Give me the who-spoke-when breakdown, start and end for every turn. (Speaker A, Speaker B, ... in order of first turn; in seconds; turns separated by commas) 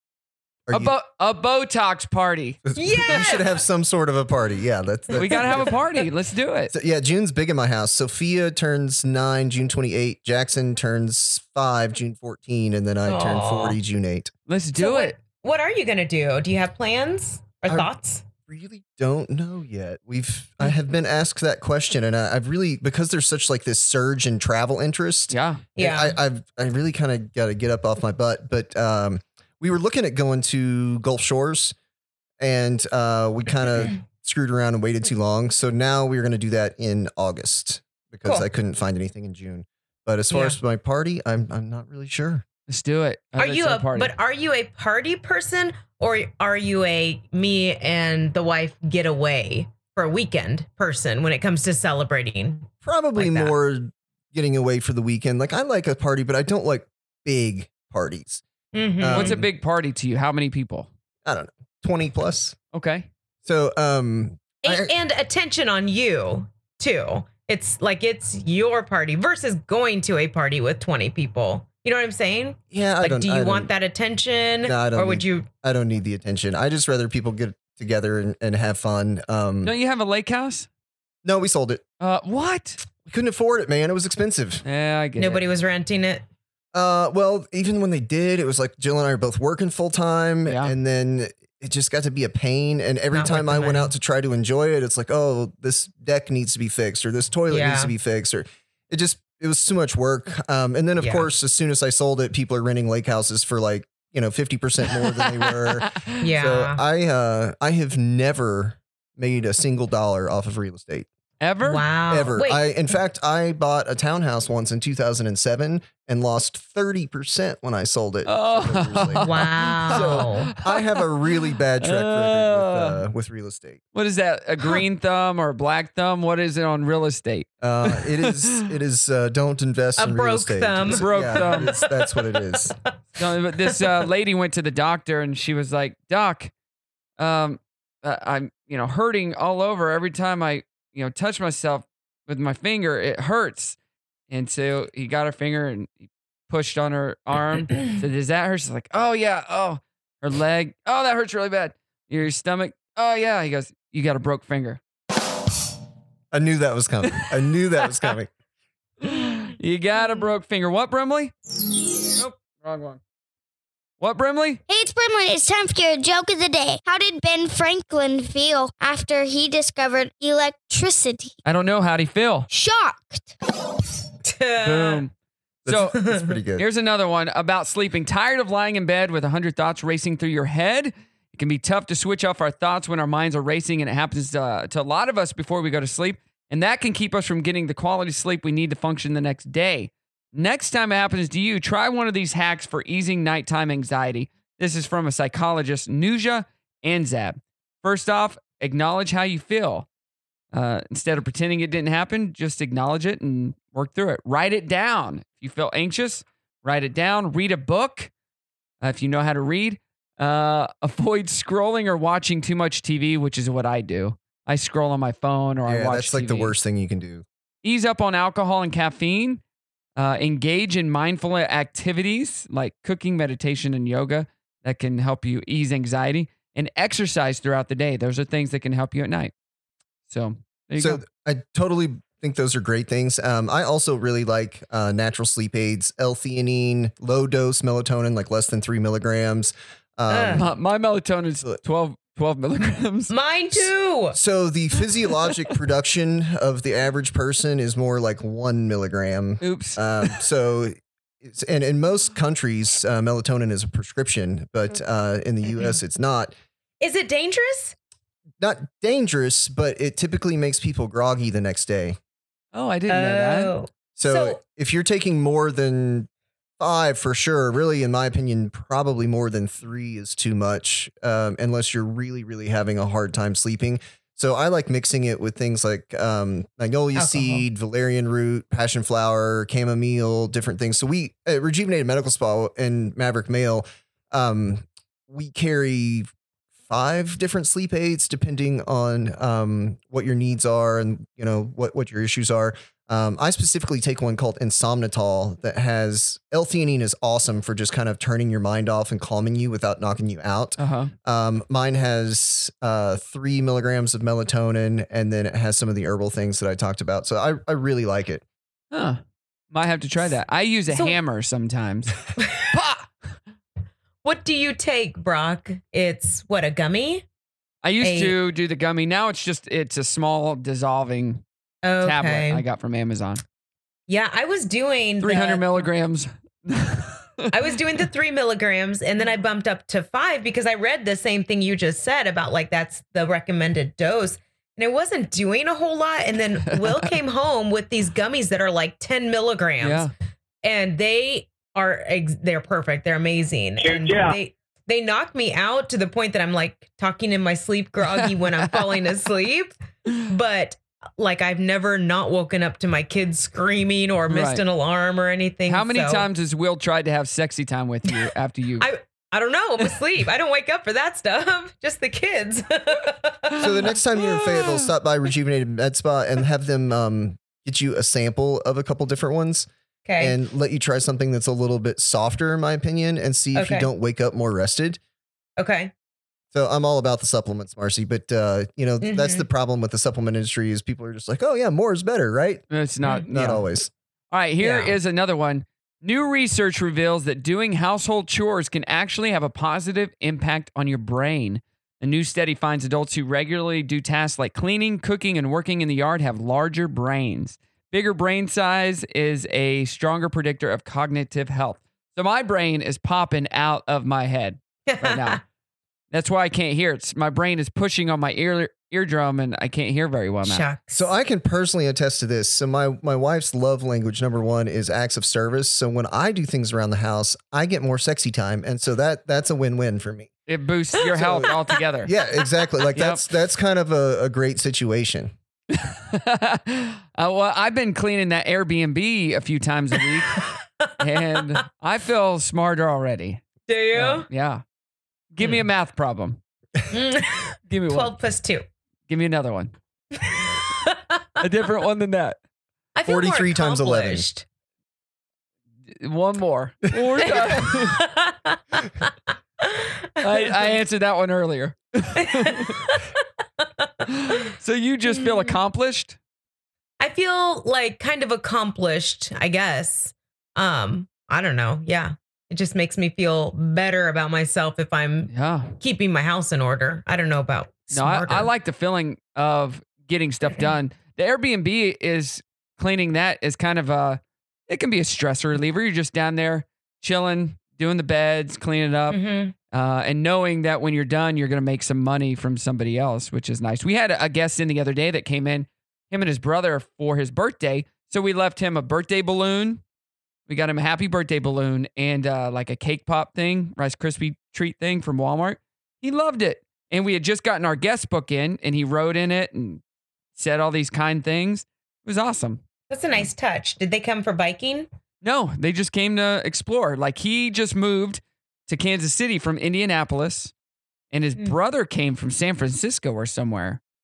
Speaker A: 0.7-0.9, Speaker B: 0.7-2.6, Speaker A: 2.6-5.8, Speaker C: 2.8-3.6, Speaker B: 5.1-6.7, Speaker A: 6.7-14.3, Speaker C: 13.1-13.8, Speaker B: 14.5-15.1, Speaker C: 14.8-18.2, Speaker A: 18.5-31.7, Speaker B: 25.3-25.6, Speaker C: 25.8-26.2, Speaker A: 32.4-42.4, Speaker C: 40.3-40.6, Speaker B: 42.7-44.1, Speaker C: 43.4-53.5, Speaker A: 52.8-58.4, Speaker C: 58.7-59.4, Speaker A: 59.0-59.5, Speaker B: 59.1-60.9, Speaker A: 61.2-62.5, Speaker B: 62.7-63.1, Speaker A: 63.4-64.9, Speaker C: 64.6-75.5, Speaker A: 72.7-73.7, Speaker A: 74.6-79.7, Speaker B: 79.6-80.7, Speaker A: 81.2-81.8, Speaker B: 82.0-82.8, Speaker A: 83.0-84.6, Speaker B: 84.6-85.4, Speaker C: 85.2-86.2, Speaker A: 86.7-111.1, Speaker B: 90.5-90.7, Speaker C: 93.1-93.9, Speaker C: 97.5-97.9, Speaker C: 101.0-101.3, Speaker B: 105.7-106.2, Speaker C: 106.2-106.8, Speaker B: 111.4-111.8, Speaker C: 111.6-112.6, Speaker A: 112.1-123.8, Speaker B: 118.2-121.0, Speaker C: 119.2-120.5, Speaker B: 121.8-123.0, Speaker B: 123.9-128.7, Speaker A: 127.6-132.8, Speaker C: 130.0-132.3, Speaker B: 130.9-131.7, Speaker B: 133.2-136.5, Speaker B: 137.2-143.8, Speaker B: 144.3-154.8, Speaker A: 156.3-158.3, Speaker B: 159.0-161.3, Speaker B: 162.1-163.0, Speaker B: 164.0-164.6, Speaker D: 164.7-171.3, Speaker B: 171.4-172.5, Speaker D: 172.5-173.3, Speaker C: 174.2-175.0, Speaker B: 174.6-175.1, Speaker A: 175.6-176.7, Speaker B: 175.7-176.0, Speaker C: 175.9-176.3, Speaker B: 176.6-199.9, Speaker B: 200.5-208.1, Speaker B: 208.8-216.5, Speaker A: 215.7-217.2, Speaker B: 217.6-219.4, Speaker B: 219.9-229.3, Speaker B: 230.1-231.0, Speaker A: 230.8-240.4, Speaker C: 240.1-240.4, Speaker B: 240.3-243.1, Speaker C: 243.1-244.2, Speaker A: 243.6-256.3, Speaker B: 249.4-250.2, Speaker C: 256.8-257.7, Speaker A: 258.4-262.0, Speaker B: 262.5-263.5, Speaker C: 262.9-264.4, Speaker A: 263.9-266.1, Speaker A: 266.6-286.1, Speaker C: 276.9-277.4, Speaker A: 286.6-308.2, Speaker B: 300.6-300.9, Speaker B: 308.7-309.0, Speaker B: 309.5-311.9, Speaker C: 310.7-310.9, Speaker C: 312.2-312.5, Speaker B: 312.5-312.9, Speaker C: 314.0-317.0, Speaker B: 317.6-321.2, Speaker C: 317.8-318.1, Speaker C: 321.6-322.4, Speaker B: 321.8-323.2, Speaker C: 323.9-325.7, Speaker B: 325.0-327.3, Speaker C: 327.3-339.9, Speaker B: 336.5-336.9, Speaker B: 339.6-339.9, Speaker C: 340.4-356.1, Speaker B: 347.9-348.5, Speaker B: 354.1-354.4, Speaker B: 355.5-358.7, Speaker C: 358.6-363.5, Speaker A: 363.4-369.5, Speaker B: 364.0-364.6, Speaker C: 369.9-370.1, Speaker A: 370.0-374.8, Speaker C: 373.3-373.7, Speaker C: 375.4-375.7, Speaker A: 376.3-382.4, Speaker C: 378.8-379.2, Speaker B: 382.5-383.4, Speaker A: 383.1-383.7, Speaker B: 384.1-405.2, Speaker C: 384.4-384.8, Speaker C: 404.7-405.2, Speaker B: 405.9-410.5, Speaker C: 410.2-410.9, Speaker A: 410.7-420.1, Speaker B: 420.3-421.9, Speaker A: 420.9-425.1, Speaker B: 422.7-423.0, Speaker B: 425.5-430.2, Speaker B: 430.8-433.2, Speaker C: 433.5-434.1, Speaker B: 433.7-434.4, Speaker B: 435.1-436.2, Speaker C: 436.7-438.4, Speaker B: 437.5-437.9, Speaker B: 438.9-439.5, Speaker C: 440.0-441.0, Speaker B: 441.2-442.2, Speaker C: 442.7-444.2, Speaker A: 442.9-444.1, Speaker B: 445.7-447.8, Speaker C: 447.1-448.9, Speaker C: 449.4-450.5, Speaker B: 450.0-452.7, Speaker C: 451.9-452.8, Speaker C: 453.6-454.1, Speaker B: 453.9-456.0, Speaker C: 455.0-455.3, Speaker C: 456.8-468.3, Speaker B: 465.1-465.6, Speaker B: 467.7-479.0, Speaker C: 478.9-479.3, Speaker B: 479.5-489.6, Speaker B: 490.3-499.6, Speaker B: 500.1-502.4, Speaker C: 502.7-504.7, Speaker B: 505.0-510.3, Speaker B: 510.9-513.6